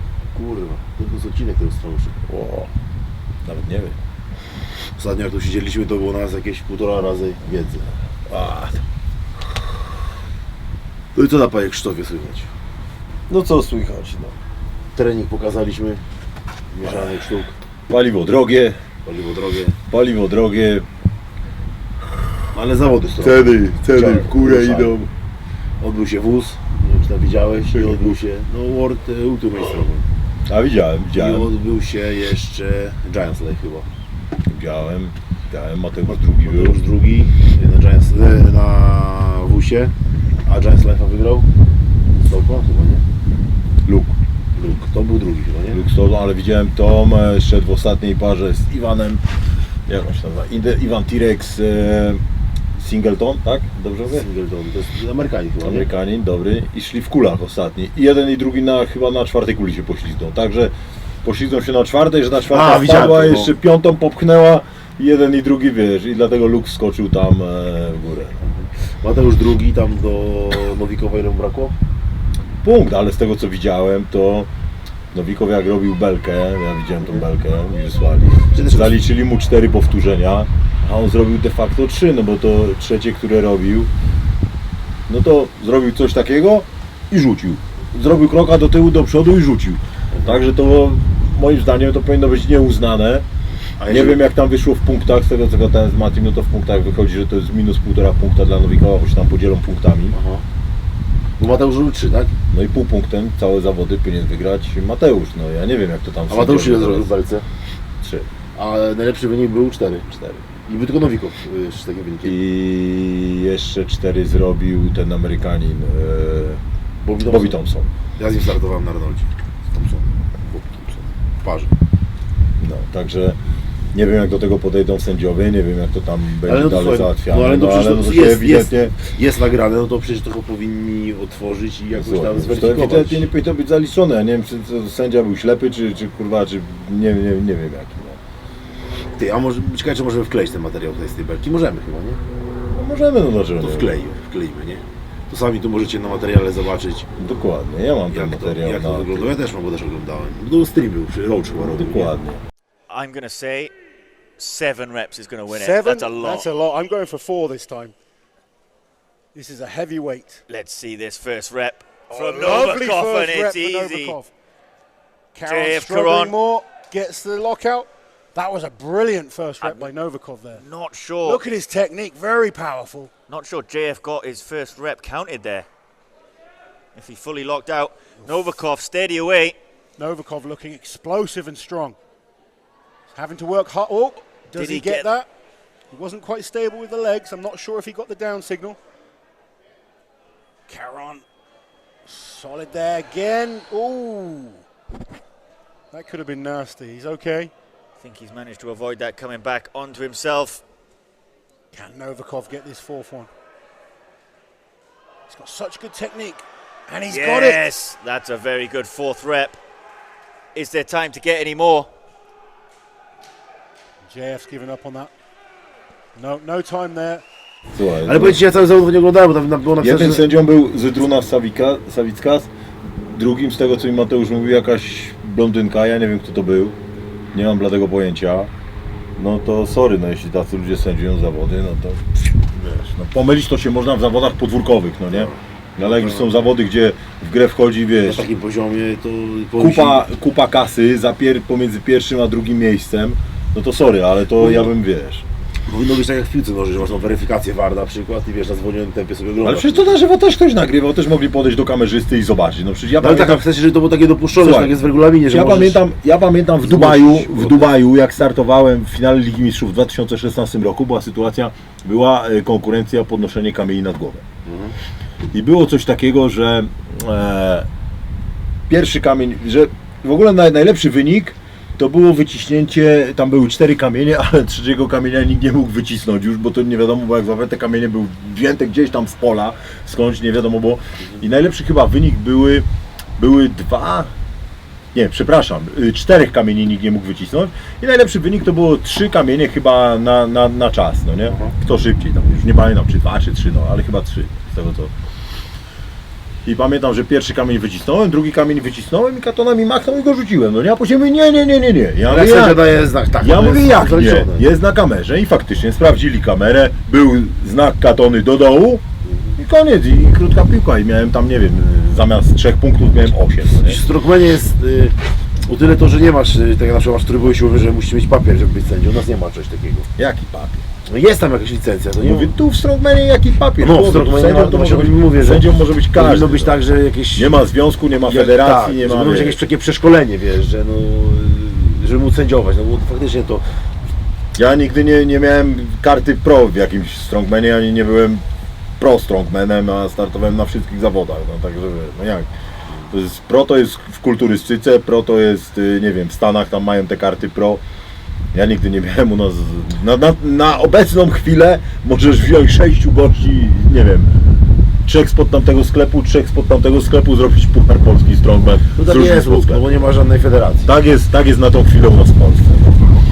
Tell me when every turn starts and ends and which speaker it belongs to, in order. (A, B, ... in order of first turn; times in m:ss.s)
0:00.3-0:02.2 A
0:02.3-0:02.7 B
0:03.4-0:04.0 B
0:05.0-0:07.9 A
0:08.3-0:08.8 B
0:11.1-0:12.5 A
0:13.3-0:14.3 B
0:14.9-0:16.0 A
0:16.7-0:17.6 A
0:16.8-0:17.1 B
0:17.9-0:18.8 B
0:19.0-0:19.8 A
0:19.9-0:20.8 B
0:22.5-0:24.9 A
0:23.2-0:25.1 B
0:25.8-0:30.1 A
0:27.7-0:28.2 B
0:30.5-0:31.5 B
0:31.1-0:33.9 A
0:34.5-0:36.8 B
0:36.4-0:39.9 A
0:40.4-0:41.5 A
0:42.2-0:43.0 A
0:43.8-0:44.2 B
0:44.6-0:45.8 A
0:45.7-0:49.2 B
0:49.9-0:52.2 B
0:52.7-0:54.2 B
0:54.1-0:55.9 A
0:55.6-1:08.4 B
1:02.5-1:03.5 A
1:08.4-1:11.7 A
1:12.6-1:14.5 B
1:15.1-1:23.9 B
1:18.5-1:18.9 A
1:25.1-1:33.2 B
1:30.1-1:30.4 A
1:33.8-1:34.2 A
1:33.9-1:40.2 B
1:40.1-1:40.4 A
1:41.4-1:42.3 A
1:42.5-1:47.1 B
1:46.3-1:47.4 A
1:48.0-1:48.3 B
1:48.5-1:50.1 A
1:50.1-1:50.4 B
1:50.6-1:52.4 A
1:52.2-1:56.6 B
1:57.0-1:57.6 A
1:57.2-1:57.9 B
1:58.2-2:01.7 A
2:02.6-2:03.4 B
2:03.9-2:08.9 B
2:06.4-2:13.3 A
2:11.9-2:18.2 B
2:19.1-2:22.2 A
2:22.7-2:24.0 B
2:23.6-2:27.1 A
2:27.2-2:29.4 B
2:28.1-2:32.1 A
2:31.7-2:32.4 B
2:32.9-2:33.7 C
2:34.4-2:36.5 C
2:35.5-2:37.9 D
2:39.3-2:40.4 D
2:40.5-2:44.2 C
2:42.1-2:44.3 D
2:45.3-2:50.6 D
2:45.4-2:46.4 C
2:49.6-2:49.9 C
2:50.5-2:51.4 C
2:51.2-2:53.1 D
2:53.3-2:55.6 C
2:56.9-2:59.6 C
3:00.0-3:02.0 D
3:03.1-3:05.3 D
3:04.5-3:05.1 C
3:05.9-3:08.8 D
3:10.7-3:11.2 D
3:12.0-3:14.6 D
3:15.9-3:17.5 D
3:18.0-3:20.6 C
3:21.7-3:23.3 D
3:25.3-3:27.7 D
3:27.1-3:29.6 C
3:30.5-3:31.9 C
3:34.1-3:35.1 D
3:36.2-3:37.2 D
3:37.7-3:38.4 B
3:38.0-3:40.3 A
3:39.8-3:46.8 B
3:47.3-3:48.5 B
3:49.2-3:58.3 B
3:55.1-3:56.3 A
3:58.0-4:00.0 A
3:59.6-4:05.2 B
4:04.3-4:04.7 A
4:05.7-4:10.0 A
4:09.4-4:13.4 B
4:13.0-4:15.8 A
4:14.3-4:24.2 B
4:16.6-4:17.7 A
4:24.4-4:24.8 A
4:25.3-4:27.7 B
4:28.7-4:42.6 B
4:43.2-4:44.1 B
4:44.9-4:54.9 B
4:51.3-4:51.5 A
4:56.4-5:02.7 B
5:02.1-5:04.4 A
5:03.2-5:08.8 B
5:09.0-5:09.4 A
5:09.4-5:13.8 B
5:13.5-5:19.9 A
5:20.0-5:20.6 B
5:20.9-5:22.3 A
5:22.0-5:26.6 B
5:23.6-5:27.4 A
5:27.2-5:29.4 B
5:28.0-5:33.4 A
5:34.3-5:38.2 B
5:38.8-5:42.3 B
5:42.9-5:47.6 B
5:48.3-5:54.1 B
5:54.8-5:59.8 B
5:58.7-6:00.7 A
6:00.6-6:02.8 B